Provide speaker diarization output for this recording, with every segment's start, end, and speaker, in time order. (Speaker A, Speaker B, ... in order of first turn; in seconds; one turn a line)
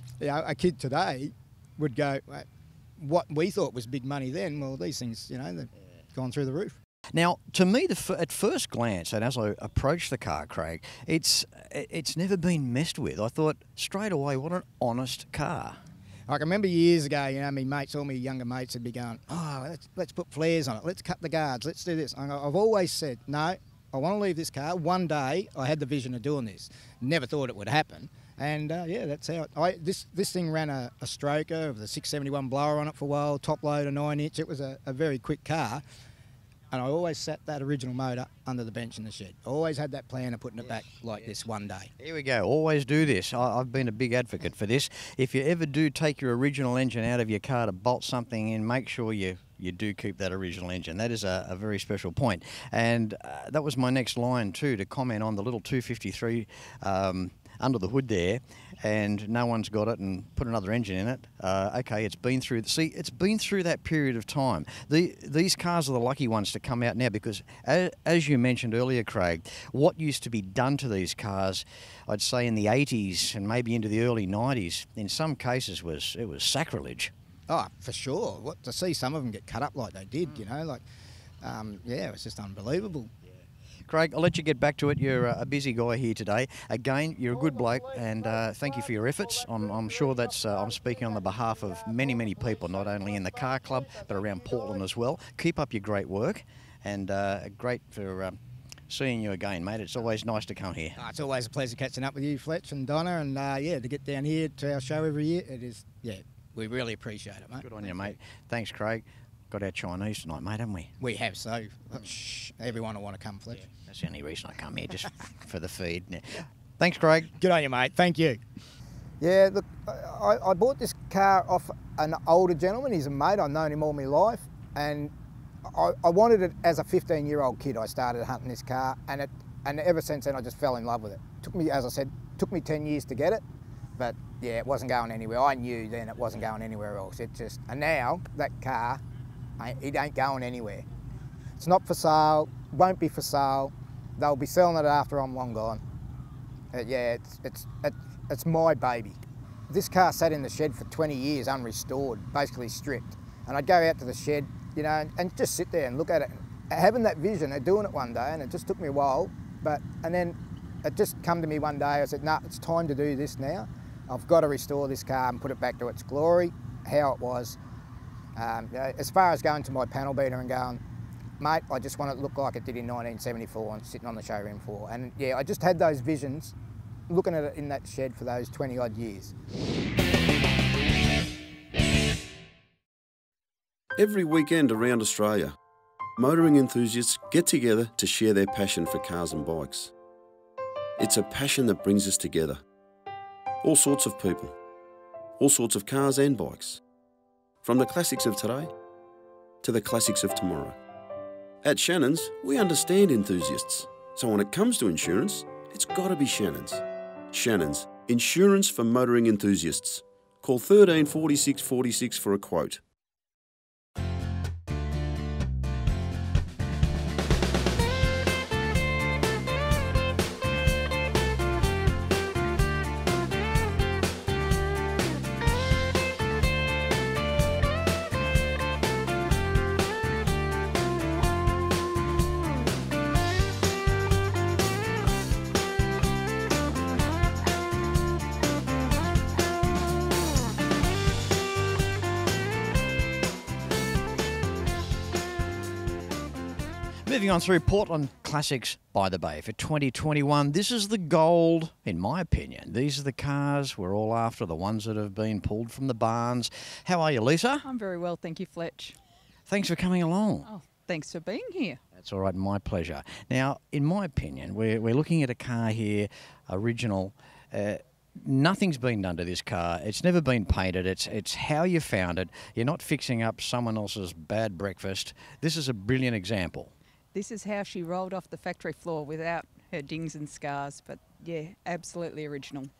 Speaker A: 0.2-6.8
Speaker B: 7.1-15.8
Speaker A: 16.3-35.8
Speaker A: 36.7-41.9
Speaker B: 42.0-77.1
Speaker A: 77.5-80.8
Speaker A: 81.4-83.1
Speaker B: 83.9-98.4
Speaker B: 98.9-101.0
Speaker A: 101.0-108.1
Speaker B: 107.6-110.9
Speaker A: 111.0-113.7
Speaker B: 113.9-117.3
Speaker A: 117.3-118.4
Speaker A: 119.2-125.1
Speaker A: 125.6-133.4
Speaker A: 133.9-139.0
Speaker A: 139.6-140.8
Speaker A: 141.6-145.8
Speaker A: 146.7-167.6
Speaker A: 168.3-170.8
Speaker A: 171.4-176.6
Speaker A: 177.1-179.3
Speaker C: 183.9-185.6
Speaker C: 186.2-189.9
Speaker C: 191.0-192.6
Speaker C: 193.6-194.5
Speaker C: 195.4-196.8
Speaker C: 197.6-198.7
Speaker C: 199.6-200.8
Speaker C: 201.6-212.8
Speaker B: 247.1-257.6
Speaker D: 257.6-258.9
Speaker B: 259.5-260.5
Speaker D: 260.4-261.8
Speaker B: 261.9-276.7
Speaker D: 277.1-282.7